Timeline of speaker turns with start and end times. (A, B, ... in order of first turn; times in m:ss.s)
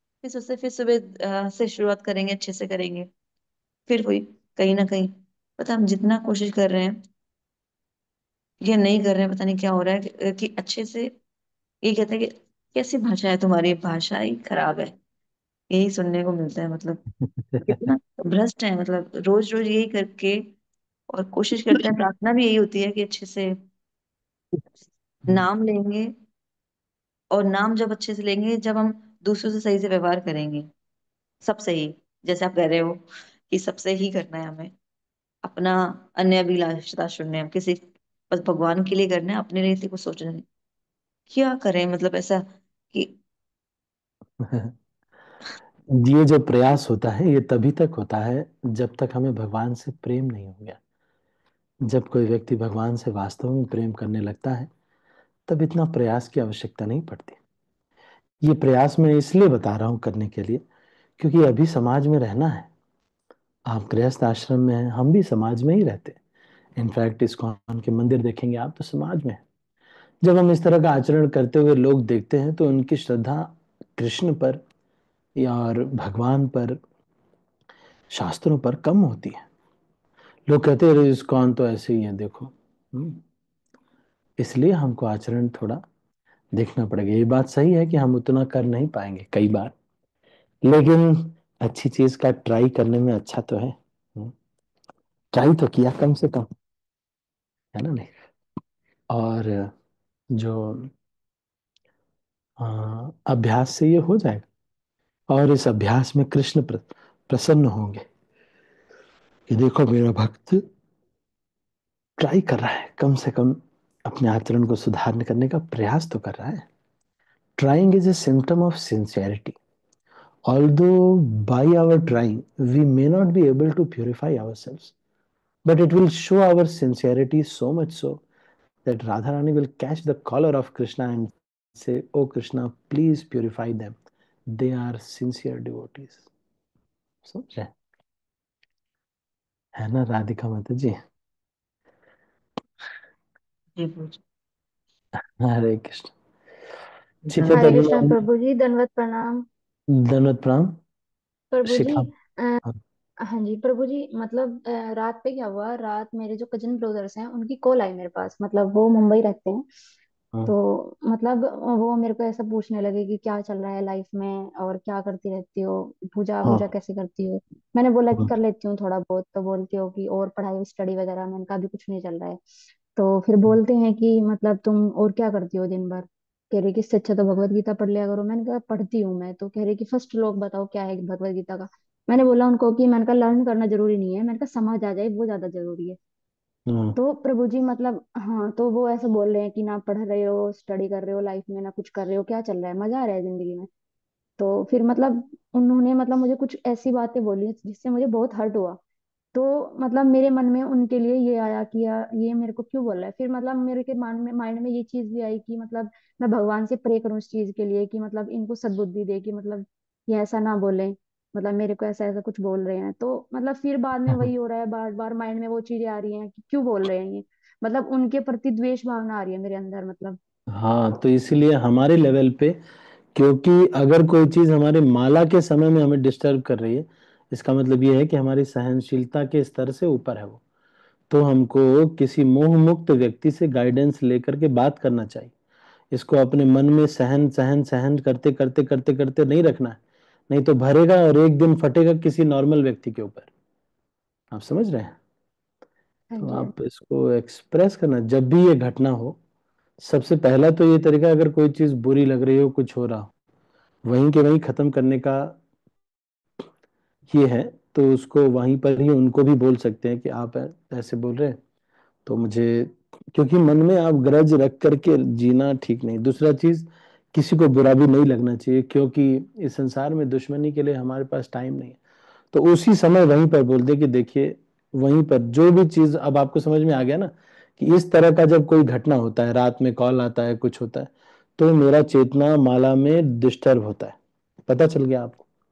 0:00.2-0:03.1 A
0:03.9-0:07.0 A
0:08.6-0:11.1 A
0:11.8-0:15.0 A
0:15.7-0:17.0 A
0:17.2-0:17.8 B
0:17.7-0:20.5 A
0:21.1-0:23.6 A
0:25.3-0:26.2 A
0:27.3-0:30.7 A
0:31.4-0:34.7 A
0:35.4-0:40.4 A
0:41.3-0:43.2 A
0:44.4-0:44.7 B
0:45.9-0:50.8 B
0:51.9-0:54.7 B
0:55.5-0:57.4 B
0:58.4-1:00.6 B
1:01.2-1:02.7 B
1:03.7-1:06.2 B
1:06.8-1:09.4 B
1:10.2-1:14.6 B
1:15.4-1:16.8 B
1:18.1-1:19.4 B
1:20.5-1:23.2 B
1:24.4-1:25.8 B
1:26.5-1:29.7 B
1:30.6-1:34.3 B
1:35.3-1:36.5 B
1:37.7-1:38.1 B
1:39.1-1:39.7 B
1:40.3-1:40.9 B
1:42.6-1:44.5 B
1:45.3-1:48.0 B
1:49.5-1:50.6 B
1:52.2-1:56.6 B
1:57.6-1:59.6 B
2:00.5-2:04.9 B
2:05.6-2:08.2 B
2:08.8-2:14.0 B
2:14.5-2:16.2 B
2:17.3-2:17.7 B
2:19.8-2:21.0 B
2:23.8-2:24.2 A
2:25.4-2:26.1 B
2:27.3-2:28.2 B
2:27.4-2:29.4 C
2:30.0-2:30.8 B
2:31.5-2:32.6 C
2:31.6-2:32.1 B
2:33.2-2:39.6 C
2:40.4-2:52.4 C
2:52.9-3:06.0 C
3:06.7-3:07.0 B
3:07.0-3:13.7 C
3:14.4-3:18.8 C
3:19.3-3:40.2 C
3:40.5-3:42.6 B
3:43.1-3:50.4 B
3:51.1-3:55.3 B
3:55.9-3:59.8 B
4:00.3-4:03.3 B
4:04.3-4:05.0 B
4:06.1-4:06.5 C
4:06.2-4:09.2 B
4:09.8-4:13.1 B
4:13.9-4:15.4 B
4:17.1-4:21.4 B
4:22.0-4:31.8 B
4:32.3-4:44.0 B
4:44.5-4:45.2 B